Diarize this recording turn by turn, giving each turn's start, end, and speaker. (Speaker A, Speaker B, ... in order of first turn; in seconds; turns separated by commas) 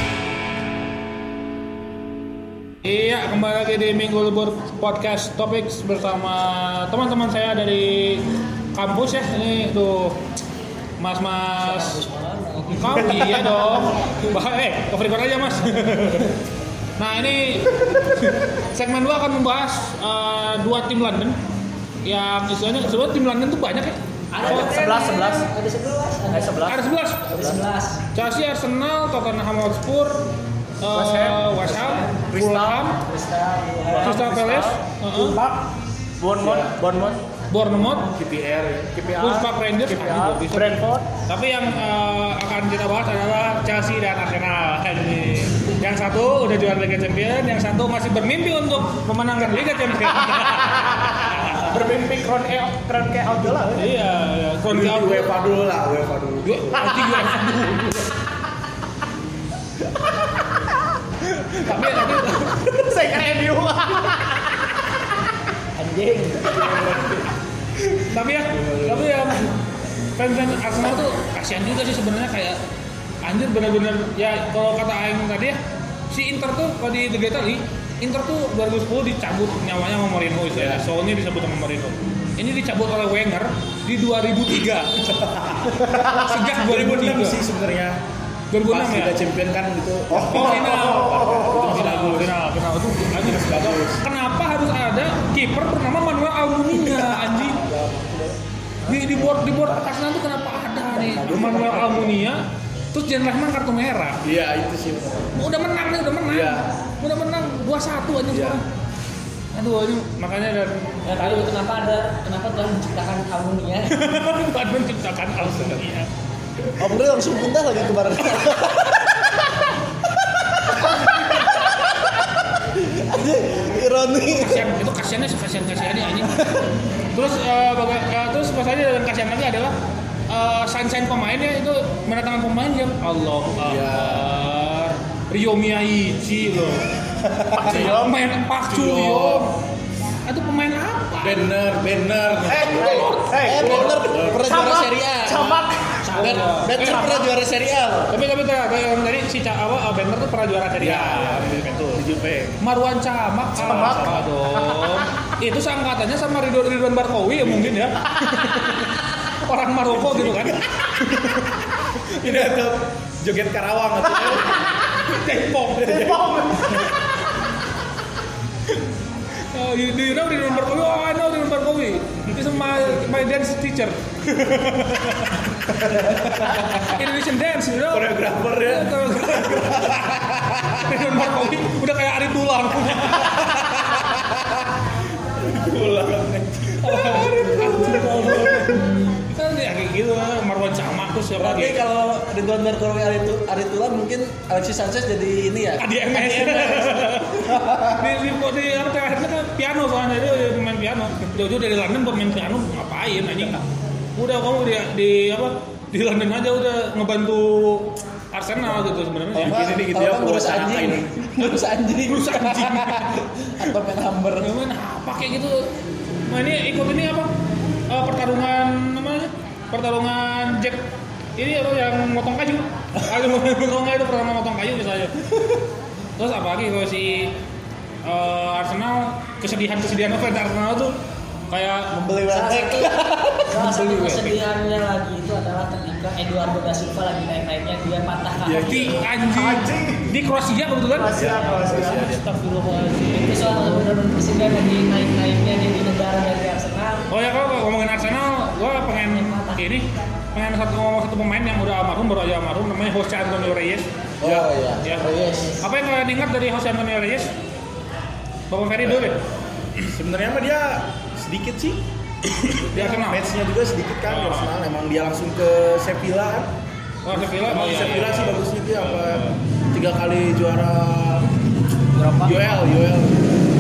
Speaker A: 2.8-10.2, Speaker A: 11.0-12.0, Speaker B: 11.6-13.4, Speaker A: 12.7-16.4, Speaker C: 13.2-13.5, Speaker A: 17.0-21.4, Speaker A: 22.0-24.8, Speaker B: 24.3-26.7, Speaker C: 24.4-25.5, Speaker C: 26.3-26.8, Speaker A: 26.7-27.3, Speaker B: 27.3-28.0, Speaker C: 27.3-27.6, Speaker A: 28.1-30.3, Speaker A: 30.8-33.0, Speaker C: 30.9-31.7, Speaker B: 31.7-32.3, Speaker C: 32.3-32.8, Speaker B: 33.0-34.2, Speaker C: 33.9-35.6, Speaker A: 34.0-35.4, Speaker C: 36.2-37.2, Speaker D: 36.4-36.7, Speaker A: 37.5-38.1, Speaker D: 38.2-38.9, Speaker C: 38.9-41.1, Speaker A: 39.2-40.8, Speaker A: 41.3-51.8, Speaker C: 50.3-53.9, Speaker A: 53.8-55.3, Speaker D: 54.7-56.6, Speaker A: 56.4-58.1, Speaker C: 56.9-57.2, Speaker A: 61.2-62.6, Speaker C: 61.7-62.0, Speaker C: 62.7-64.6, Speaker B: 65.8-66.7, Speaker C: 66.5-67.0, Speaker A: 67.9-69.5, Speaker D: 68.5-69.1, Speaker A: 70.2-72.6, Speaker A: 73.2-75.6, Speaker A: 76.1-85.0, Speaker D: 80.5-80.8, Speaker D: 85.1-88.0, Speaker A: 85.7-87.4, Speaker A: 88.5-89.2, Speaker D: 88.7-92.3, Speaker A: 90.1-97.6, Speaker D: 93.2-94.0, Speaker D: 97.3-98.3, Speaker A: 98.9-104.2, Speaker D: 101.3-101.6, Speaker D: 104.2-105.4, Speaker A: 105.4-108.6, Speaker D: 106.3-106.7, Speaker D: 108.3-108.6, Speaker A: 109.5-111.5, Speaker B: 111.0-114.0, Speaker A: 113.9-116.1, Speaker D: 115.5-115.8, Speaker E: 116.8-119.7, Speaker E: 120.2-124.7, Speaker A: 124.4-126.6, Speaker A: 127.1-129.8, Speaker A: 130.3-136.9, Speaker D: 133.6-134.3, Speaker D: 137.3-137.9, Speaker C: 137.5-138.1, Speaker A: 137.6-139.6, Speaker D: 138.7-139.5, Speaker A: 140.3-141.5, Speaker D: 141.2-143.0, Speaker A: 142.4-143.6, Speaker C: 142.5-146.1, Speaker E: 143.4-148.2, Speaker D: 143.6-144.4, Speaker A: 146.0-147.3, Speaker A: 148.1-152.0, Speaker D: 150.8-152.6, Speaker A: 152.6-162.6, Speaker C: 153.6-155.1, Speaker D: 153.7-154.2, Speaker D: 160.0-160.7, Speaker D: 162.2-164.6, Speaker A: 165.1-166.3, Speaker C: 165.8-166.9, Speaker A: 169.5-184.0, Speaker D: 175.8-177.0, Speaker D: 177.9-180.9, Speaker D: 185.4-188.8, Speaker A: 186.8-191.8, Speaker E: 191.4-198.1, Speaker A: 195.8-203.7, Speaker A: 204.2-209.6, Speaker D: 209.3-211.4, Speaker E: 209.4-214.6, Speaker A: 212.1-213.3, Speaker A: 214.4-215.7, Speaker A: 216.3-217.3, Speaker A: 217.9-220.8, Speaker A: 221.4-225.5, Speaker A: 226.2-227.4, Speaker A: 228.1-230.9, Speaker A: 231.5-231.9, Speaker E: 231.9-233.5, Speaker B: 232.3-239.0, Speaker A: 233.6-234.4, Speaker D: 238.4-239.2, Speaker A: 238.6-241.2, Speaker C: 239.3-240.2, Speaker C: 240.9-242.1, Speaker D: 241.2-242.3, Speaker B: 241.4-241.7, Speaker A: 241.9-243.8, Speaker B: 243.0-247.1, Speaker A: 247.1-257.3, Speaker B: 249.1-249.6, Speaker E: 254.2-255.6, Speaker A: 258.5-259.2, Speaker D: 258.8-259.1, Speaker D: 259.9-261.8, Speaker A: 262.3-263.2, Speaker D: 262.4-266.5, Speaker A: 264.1-264.5, Speaker A: 267.1-269.4, Speaker D: 267.1-271.3, Speaker D: 272.0-273.3